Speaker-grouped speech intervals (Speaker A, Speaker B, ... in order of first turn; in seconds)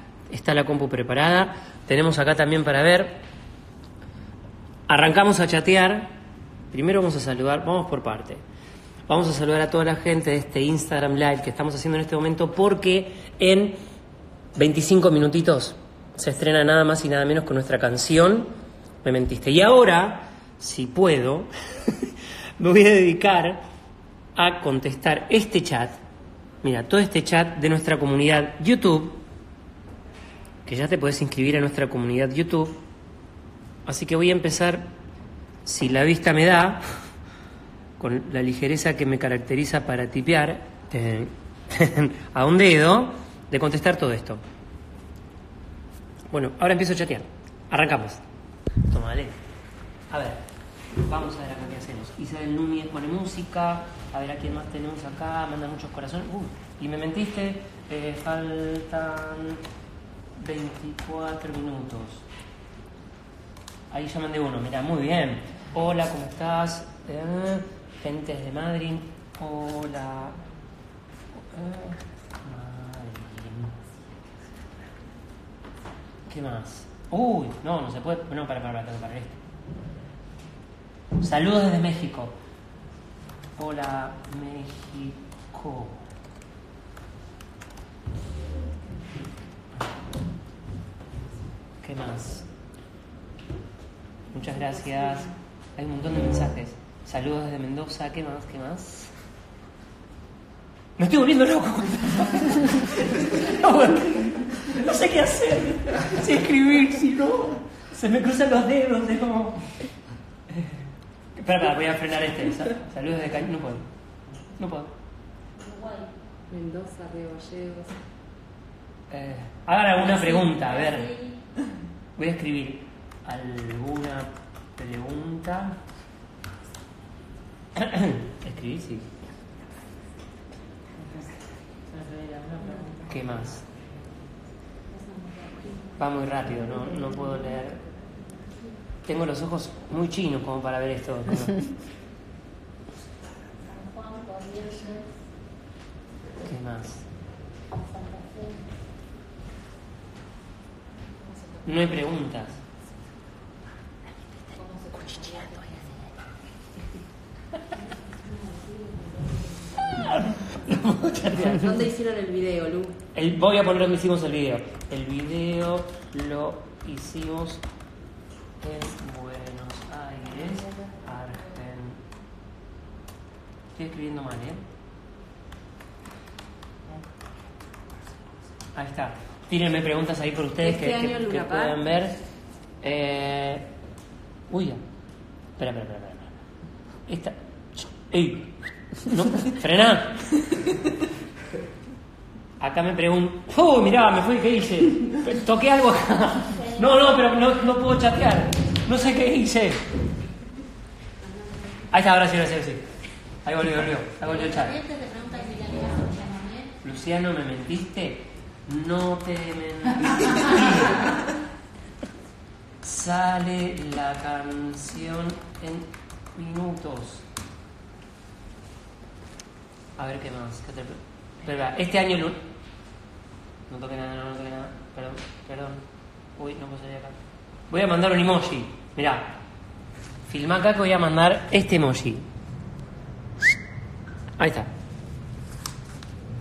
Speaker A: 0.3-3.2, 4.9-6.1, 6.7-8.4, 9.1-13.8, 14.6-18.5, 19.0-23.6, 24.4-26.0, 26.6-29.2, 30.6-32.8, 33.9-34.9, 35.6-36.8, 38.0-44.4, 46.3-48.2, 48.9-49.4, 50.1-50.4, 51.0-59.6, 60.4-62.2, 63.9-70.4, 71.4-73.8, 76.3-79.4, 81.2-82.3, 83.5-86.1, 91.8-92.5, 94.3-99.1, 101.0-109.8, 110.5-110.8, 111.3-113.9, 114.5-114.9, 119.1-121.2, 122.2-125.8, 127.8-129.1, 132.9-133.7, 135.9-137.8, 139.1-141.7, 146.4-147.1, 151.6-152.6, 154.9-155.7, 159.9-161.8, 163.1-167.6, 168.6-172.0, 173.7-174.7, 178.7-182.2, 182.8-183.7, 184.5-184.8, 185.6-186.3, 187.1-190.4, 192.6-199.8, 201.9-202.9, 203.4-204.9, 206.7-211.3, 212.8-217.2, 220.0-222.4, 223.7-225.8, 226.4-227.2, 227.7-229.3, 230.3-232.3, 234.4-234.7
Speaker B: 115.6-118.0, 120.2-121.4, 131.9-132.9, 135.0-135.8, 143.6-145.1, 147.8-148.6, 154.6-155.4, 158.2-159.9, 161.4-163.0, 180.6-181.8, 204.6-206.7